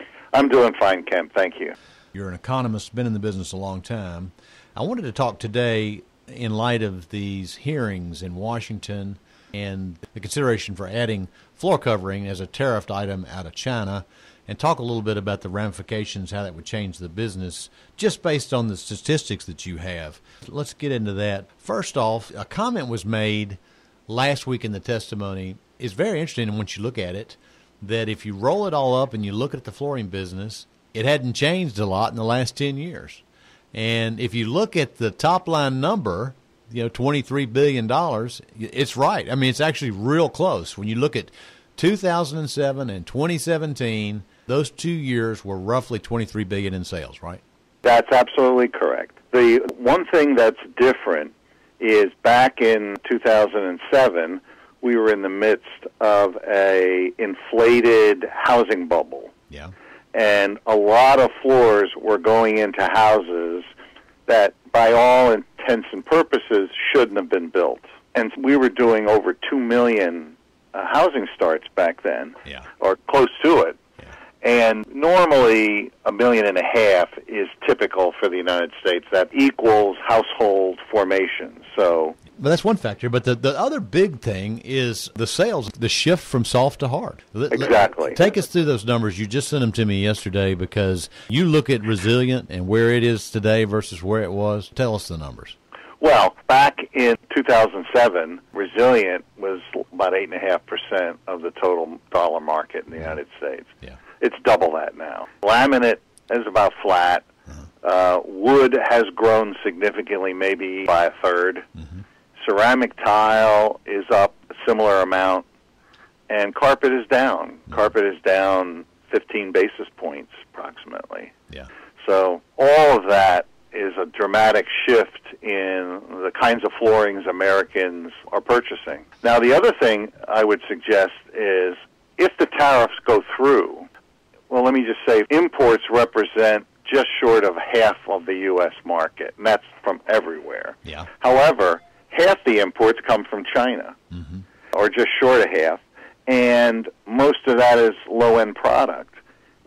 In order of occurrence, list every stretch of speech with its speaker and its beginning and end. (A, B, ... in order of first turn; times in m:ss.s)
0:00.3-0:01.8 A
0:02.1-0:47.4 B
0:47.8-0:59.3 A
1:00.1-1:03.7 A
1:04.3-1:13.8 A
1:14.4-1:22.2 A
1:22.3-1:35.6 B
1:27.5-1:28.2 A
1:36.0-1:47.2 A
1:47.8-1:51.6 A
1:52.4-1:55.5 A
1:56.3-2:01.3 A
2:02.0-2:13.9 A
2:14.5-2:24.0 A
2:24.1-2:24.4 B
2:24.7-2:29.2 A